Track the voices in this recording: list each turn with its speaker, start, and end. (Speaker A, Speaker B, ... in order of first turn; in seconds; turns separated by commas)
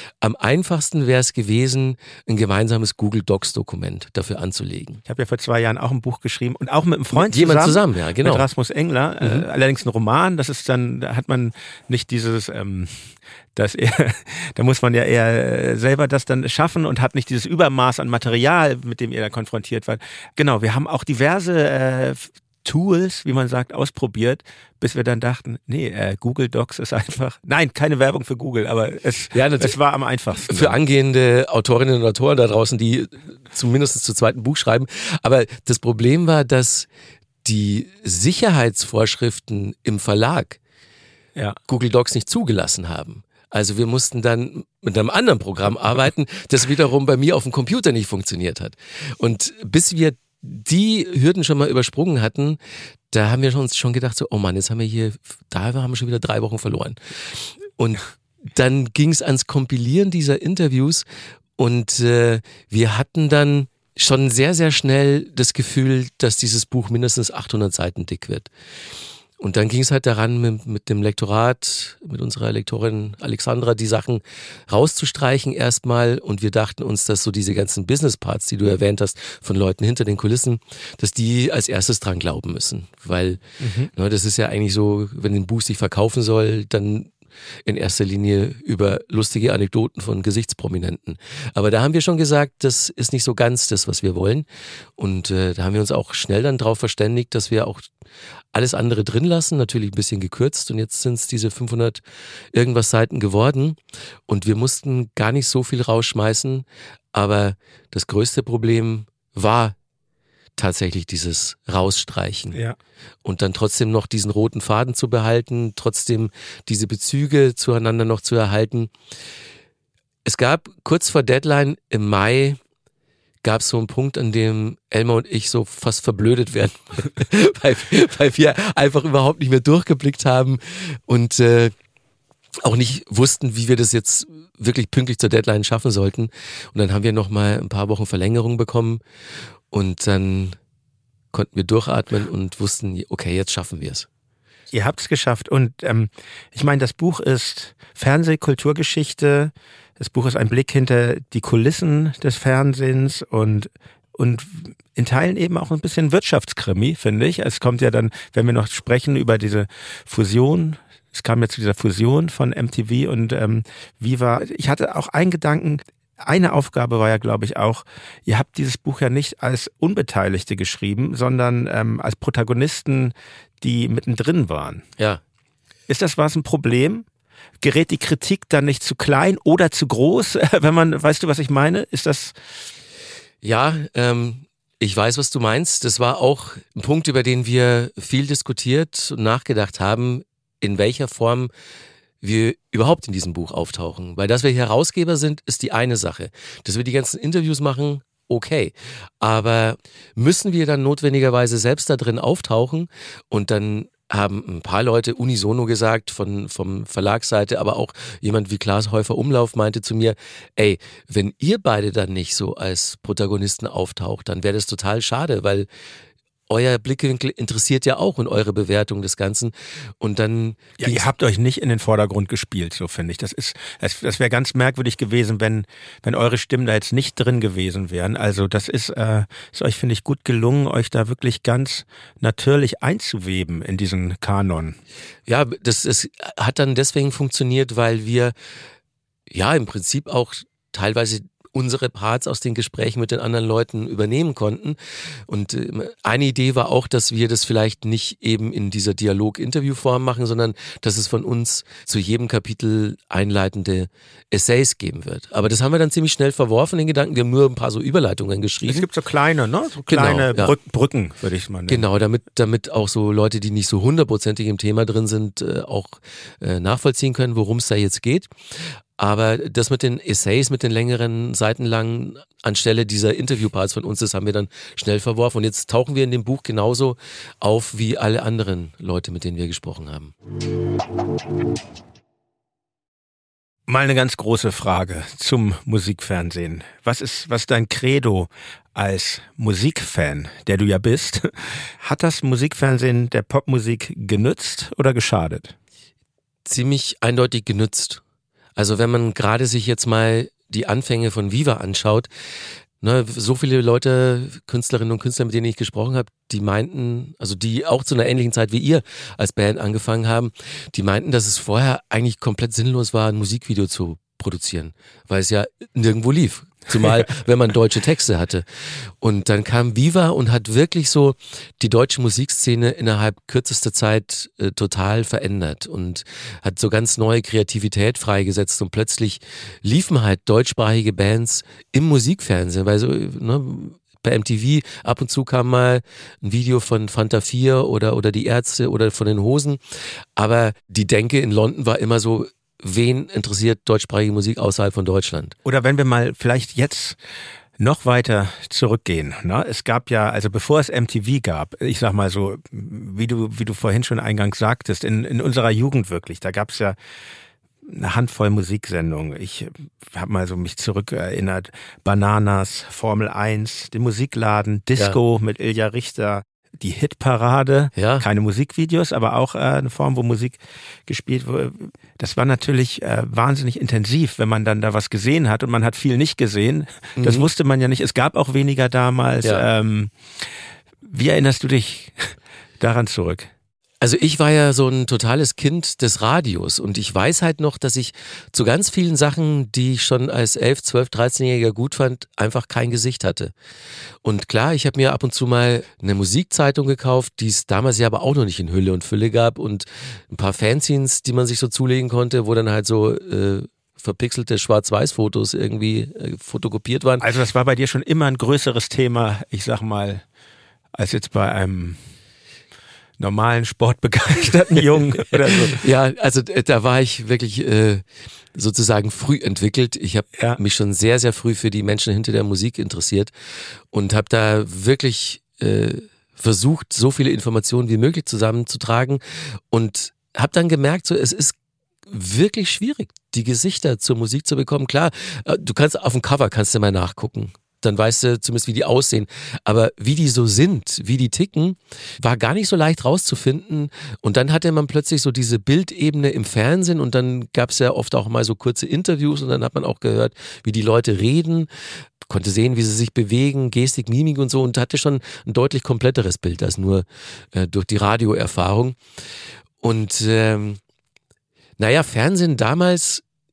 Speaker A: 0.2-5.0, Speaker B: 5.1-30.8, Speaker A: 7.2-8.4, Speaker A: 9.2-9.5, Speaker A: 29.3-29.8, Speaker A: 30.4-36.9, Speaker A: 37.4-40.6, Speaker A: 41.7-52.6, Speaker A: 53.1-61.0, Speaker A: 61.6-68.5, Speaker A: 69.4-83.4, Speaker B: 83.6-83.9, Speaker A: 83.9-87.1, Speaker A: 87.7-94.5, Speaker A: 95.0-97.9, Speaker A: 98.5-102.0, Speaker A: 102.5-109.8, Speaker A: 110.6-112.6, Speaker A: 113.2-118.9, Speaker A: 120.3-122.6, Speaker A: 123.4-131.7, Speaker A: 132.6-139.0, Speaker A: 139.7-140.6, Speaker A: 141.3-144.1, Speaker B: 144.7-174.9, Speaker B: 175.9-177.1, Speaker B: 177.6-182.3, Speaker A: 183.4-191.5, Speaker A: 192.2-215.7, Speaker A: 216.5-221.1, Speaker B: 220.8-234.8, Speaker A: 235.3-238.3, Speaker A: 239.3-258.9, Speaker B: 258.7-261.9, Speaker A: 259.9-260.5, Speaker A: 261.7-268.3, Speaker A: 269.0-280.1, Speaker B: 283.7-295.5, Speaker A: 296.5-298.0, Speaker A: 298.6-302.1, Speaker A: 302.8-339.6, Speaker A: 340.2-345.4, Speaker B: 345.4-347.0, Speaker B: 347.6-356.8, Speaker B: 357.6-380.3, Speaker A: 367.8-368.1, Speaker A: 377.0-377.3, Speaker B: 380.8-383.3, Speaker A: 383.8-393.3, Speaker A: 394.0-407.0, Speaker B: 407.0-410.0, Speaker B: 410.8-411.8, Speaker B: 413.0-415.6, Speaker A: 414.7-423.1, Speaker A: 423.7-431.4, Speaker A: 431.9-451.5, Speaker A: 452.0-458.8, Speaker A: 459.6-460.6, Speaker A: 461.6-463.0